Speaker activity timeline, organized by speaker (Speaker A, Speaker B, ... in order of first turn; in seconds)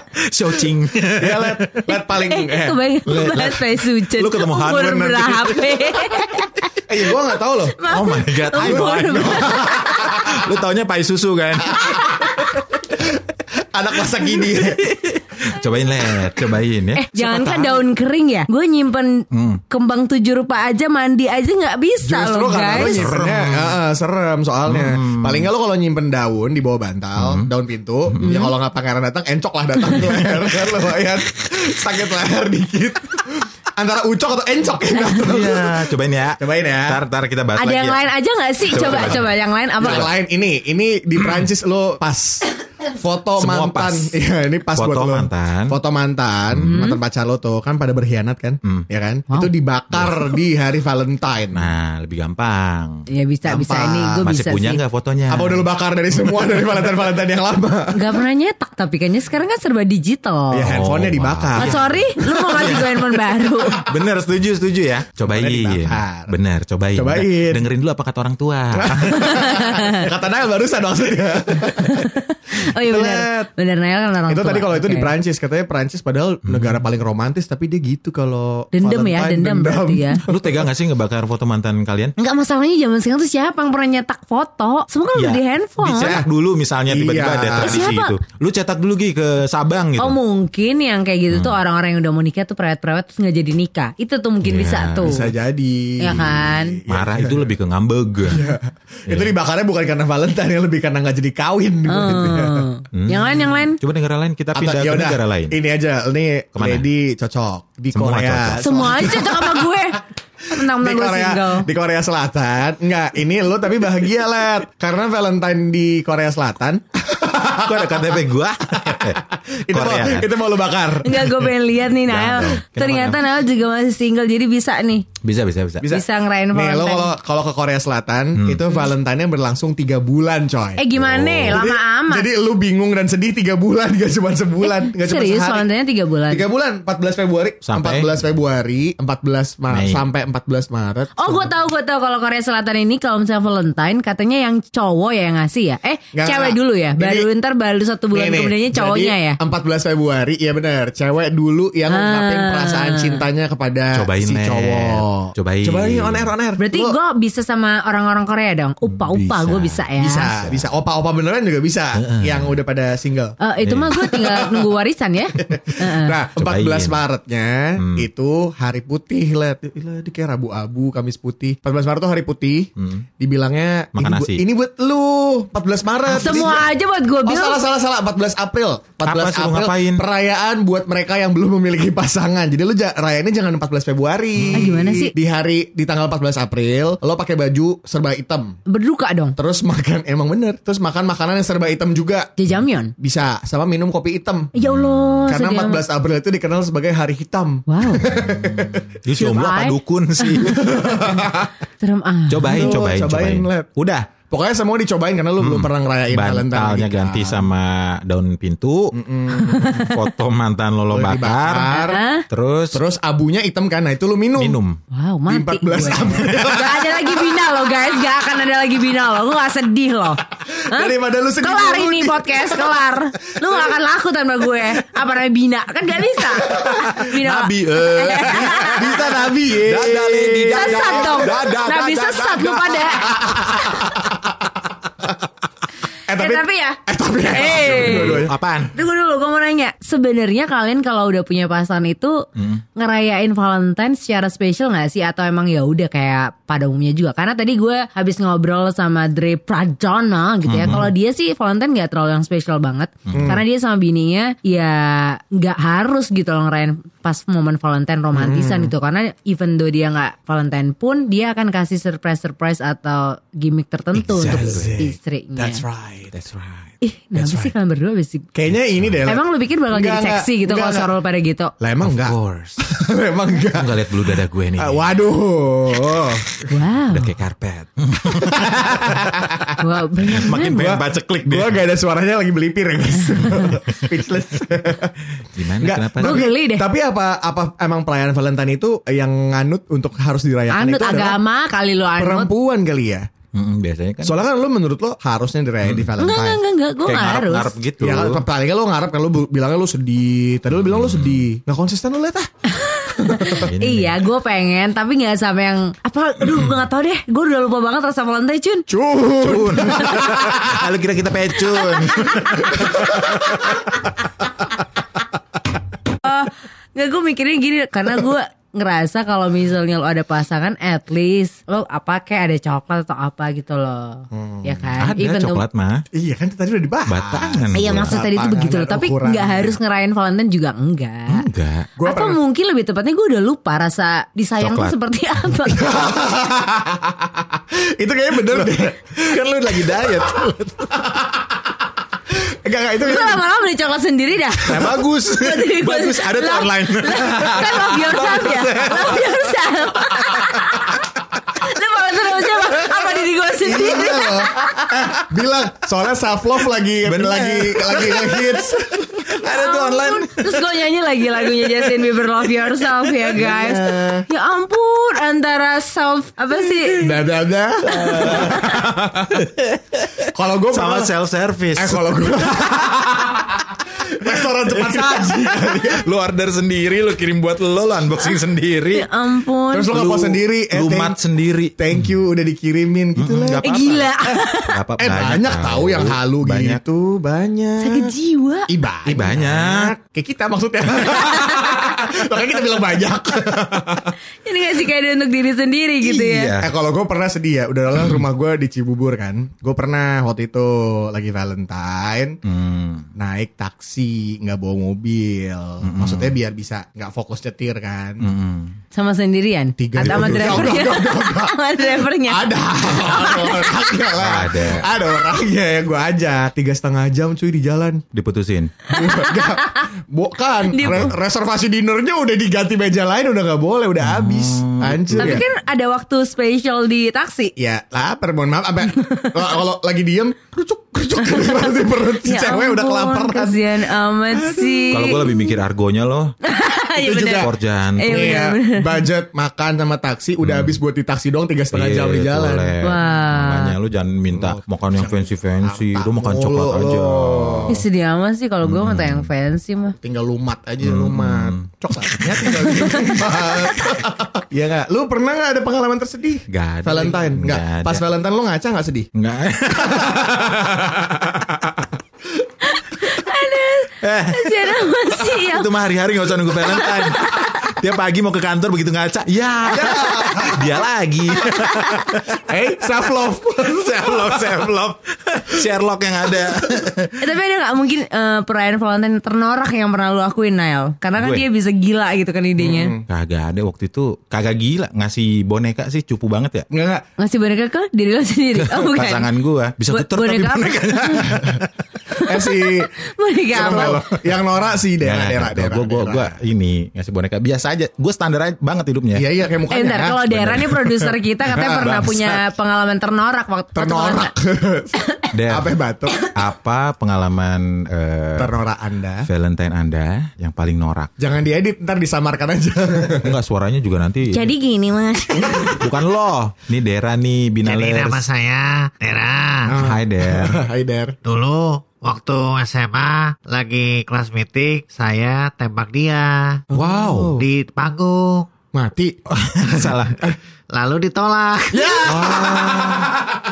Speaker A: 0.3-1.9, 3.0-5.9, 7.6-12.1, 14.6-17.9, 19.3-19.6, 22.7-23.8, 24.6-25.5, 27.2-27.5, 28.1-28.4, 29.9-30.7, 35.1-38.0, 38.6-39.3, 43.4-44.1, 44.7-45.8, 46.5-46.8, 51.5-53.0, 54.2-55.7, 60.6-61.9, 62.5-69.2, 76.5-76.8, 80.2-82.1, 85.1-90.2, 91.3-91.6, 94.4-95.2, 96.1-98.5, 99.1-99.3, 102.9-105.6, 106.5-106.9, 107.9-109.1, 117.5-120.3, 122.1-123.2, 125.2-125.8, 128.3-128.7, 130.9-131.6, 137.6-138.2, 139.7-140.0, 153.9-156.3, 158.9-159.8, 161.9-162.5, 163.6-164.0, 166.4-167.0, 167.8-168.1, 172.8-173.1, 173.9-174.4, 179.0-180.0, 184.4-184.7, 194.6-195.3, 198.1-200.7, 202.3-204.1, 205.4-208.9, 209.7-212.8, 214.4-214.8, 215.8-216.5, 226.9-233.1, 237.5-238.7, 242.3-242.6, 250.5-250.9, 253.1-253.4, 263.9-264.8, 266.1-266.7, 268.7-269.0, 271.8-272.6, 273.5-274.9, 276.9-279.1, 280.1-281.6, 285.3-286.3, 293.3-294.2, 295.6-295.9, 296.8-298.2, 300.5-301.2, 303.3-304.0, 309.2-313.2, 324.7-325.8, 326.9-328.0, 331.1-331.7, 334.4-334.7, 338.3-340.7, 344.5-349.1, 356.8-360.4, 367.6-371.8, 374.1-378.9, 379.7-381.8, 382.9-383.9, 384.5-386.6, 388.9-389.7, 396.1-396.5, 402.2-402.9, 405.6-406.1, 408.0-408.6, 409.8-410.6, 414.0-414.7, 417.9-418.5, 420.6-420.9, 423.8-425.2, 434.7-436.1, 437.2-438.1, 440.2-440.6, 441.5-447.6, 448.4-449.1, 450.6-451.4, 452.0-452.7, 456.3-457.9, 458.9-460.8, 463.8-472.2, 473.4-477.0, 480.9-481.2, 482.9-486.5, 488.4-491.4, 493.4-493.8, 494.8-499.1, 500.1-500.9, 505.1-505.5, 506.1-508.4, 509.0-510.9, 512.9-514.3, 515.6-518.0, 519.6-520.4, 526.5-527.2, 529.1-530.1, 531.8-532.9
Speaker B: 1.2-2.8, 6.9-7.7, 8.6-10.3, 11.7-15.0, 22.0-35.9, 36.4-37.0, 38.7-51.7, 53.4-54.2, 55.3-58.2, 60.5-61.7, 65.3-66.3, 67.0-67.6, 68.8-72.0, 72.6-73.5, 74.3-80.7, 85.9-86.2, 86.9-87.9, 95.0-97.5, 98.2-102.7, 104.5-109.8, 110.5-118.1, 119.7-121.5, 125.8-130.8, 131.4-135.7, 136.3-141.5, 146.1-147.3, 148.1-157.0, 160.0-163.4, 164.0-164.7, 165.4-176.7, 177.2-188.6, 189.3-192.3, 193.0-194.5, 195.3-198.9, 200.4-201.5, 202.4-203.7, 204.3-207.5, 208.9-209.8, 210.9-212.0, 212.7-214.6, 215.3-217.2, 220.4-222.9, 223.4-223.7, 226.4-226.7, 228.2-231.6, 233.0-234.3, 236.1-238.3, 253.1-253.4, 258.1-258.7, 264.2-266.1, 267.1-267.5, 268.3-270.9, 271.6-273.9, 274.6-276.5, 278.0-279.5, 280.1-285.0, 285.6-291.2, 292.0-293.1, 294.0-296.4, 297.8-302.3, 302.9-303.4, 308.7-310.6, 312.5-313.6, 324.1-324.5, 325.9-329.6, 331.8-332.2, 335.5-340.1, 342.4-343.2, 353.2-358.9, 363.0-364.1, 366.8-369.2, 370.1-370.9, 371.6-375.8, 379.5-381.0, 381.6-384.2, 384.8-387.9, 388.5-393.9, 395.8-402.2, 402.9-408.1, 409.6-417.8, 418.7-425.2, 427.4-433.5, 434.1-435.0, 436.8-437.3, 437.8-442.6, 444.1-447.6, 449.8-458.9, 459.6-461.3, 469.5-470.5, 472.3-474.4, 482.4-482.8, 486.5-486.9, 492.1-492.7, 493.3-496.1, 498.9-500.1, 501.3-502.0, 503.5-506.1, 508.2-509.1, 511.0-513.1, 515.1-515.6, 519.5-521.0, 526.5-527.3, 528.5-530.1, 531.5-532.9
Speaker C: 2.2-6.7, 7.7-10.2, 16.9-23.1, 28.2-28.5, 37.5-40.1, 46.6-47.0, 53.1-54.8, 57.9-60.7, 61.6-63.8, 69.2-70.0, 71.7-75.1, 78.7-80.2, 82.2-86.2, 87.6-88.2, 90.0-95.3, 96.0-96.8, 101.8-103.8, 108.6-111.7, 121.0-125.1, 125.9-127.1, 130.8-132.3, 134.6-136.4, 141.2-149.4, 151.9-153.2, 156.6-160.3, 163.4-166.2, 176.1-177.6, 184.5-185.1, 188.7-189.3, 192.4-192.9, 194.5-195.8, 197.7-198.1, 199.2-200.8, 201.8-202.8, 209.4-209.9, 211.7-212.2, 214.9-228.9, 230.5-234.0, 236.1-265.6, 266.8-268.3, 269.1-271.5, 276.5-277.1, 279.6-280.6, 283.0-283.6, 286.0-286.7, 290.5-292.3, 296.0-297.5, 302.5-308.7, 311.5-312.7, 316.0-325.4, 327.5-331.3, 331.8-335.8, 342.8-354.7, 359.2-366.9, 367.8-368.4, 378.7-379.8, 383.4-384.5, 387.6-388.5, 394.2-396.3, 408.7-413.5, 418.7-419.6, 420.5-420.9, 425.0-427.3, 428.7-429.2, 431.0-435.4, 436.2-438.8, 442.6-443.5, 447.5-449.8, 462.4-465.5, 466.3-467.5, 477.0-482.7, 487.0-489.1, 489.7-491.0, 491.9-493.8, 499.5-504.1, 514.1-515.6
Speaker D: 517.4-519.6, 521.0-526.4, 527.2-528.3, 530.5-531.8